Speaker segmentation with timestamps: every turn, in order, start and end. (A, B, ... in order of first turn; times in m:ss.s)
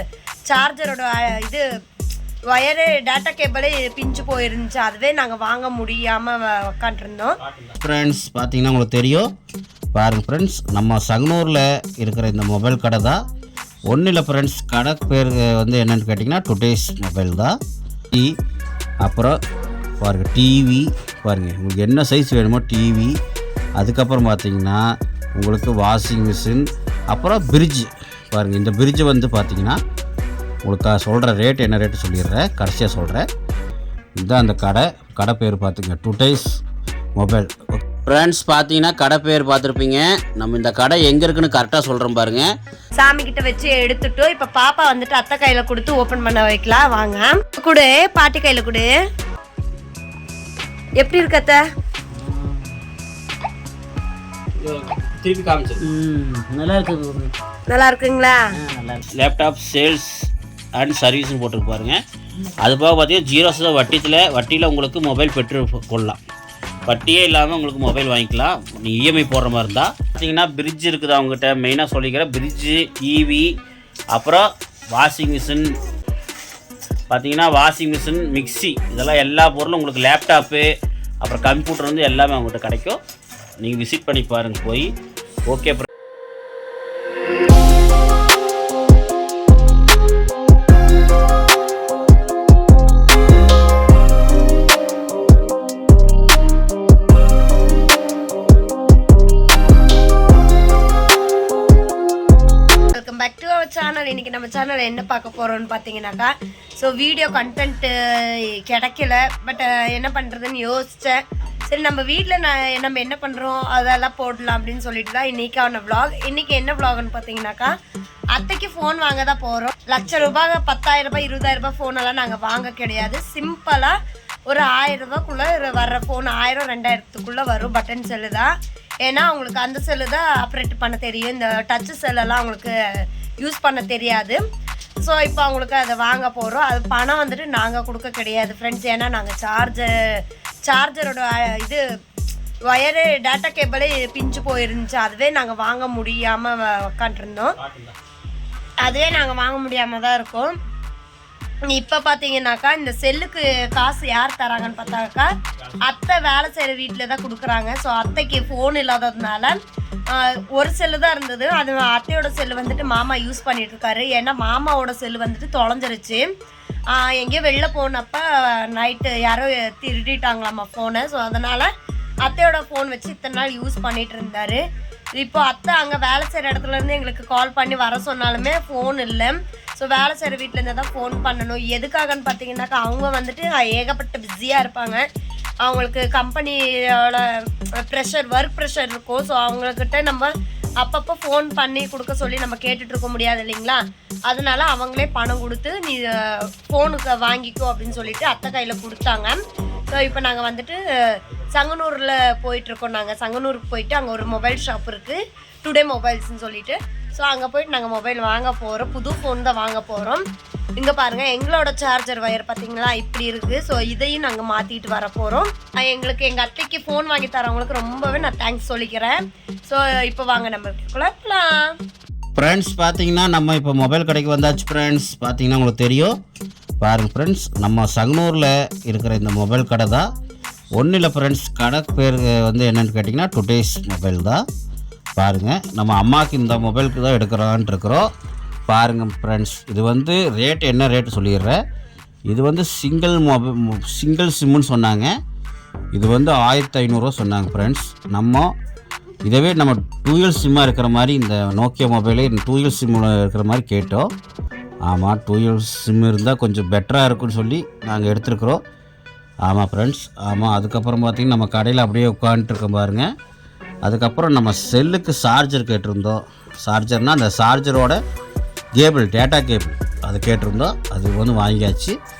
0:00.5-0:01.6 A
0:02.5-0:07.4 A
0:07.5-0:09.3 B
0:10.0-0:13.2 B
0:13.9-0:17.6 B
0:19.0-0:19.4 B
0:20.0-0:23.1 B
0:23.8-0:24.8 B
0:25.4-0:29.8 B
0:30.6-0:33.2 B
0:34.2-0:36.6 B
0:37.2-0:42.5 B
0:43.0-0:48.9 A
0:51.0-0:51.6 A
0:52.1-0:52.8 C
0:54.6-0:55.8 B
0:55.8-0:57.3 C
0:57.7-0:58.4 A
0:58.6-0:59.0 C
0:59.2-1:02.0 B
1:02.6-1:06.2 B
1:06.9-1:13.5 B
1:14.1-1:15.7 B
1:17.1-1:20.7 B
1:21.2-1:23.0 B
1:23.6-1:24.9 B
1:25.5-1:25.9 B
1:42.9-1:57.7 A
1:58.3-2:03.9 A
2:04.5-2:08.5 A
2:09.0-2:12.7 A
2:13.4-2:14.4 A
2:15.0-2:21.8 A
2:22.7-2:27.6 A
2:27.6-2:27.9 B
2:28.8-2:30.5 A
2:31.7-2:35.3 A
2:35.8-2:39.6 A
2:40.1-2:46.2 A
2:46.9-2:51.7 A
2:52.2-2:54.6 A
2:55.2-3:05.0 A
3:05.6-3:30.2 A
3:30.8-3:41.8 A
3:42.4-3:46.1 B
3:46.8-3:50.1 B
3:50.8-3:54.4 B
3:55.2-3:58.1 B
3:58.7-4:01.6 B
4:02.3-4:05.1 B
4:05.9-4:08.5 B
4:09.3-4:14.1 B
4:14.9-4:18.6 B
4:19.5-4:23.1 B
4:23.8-4:28.0 B
4:28.8-4:32.0 B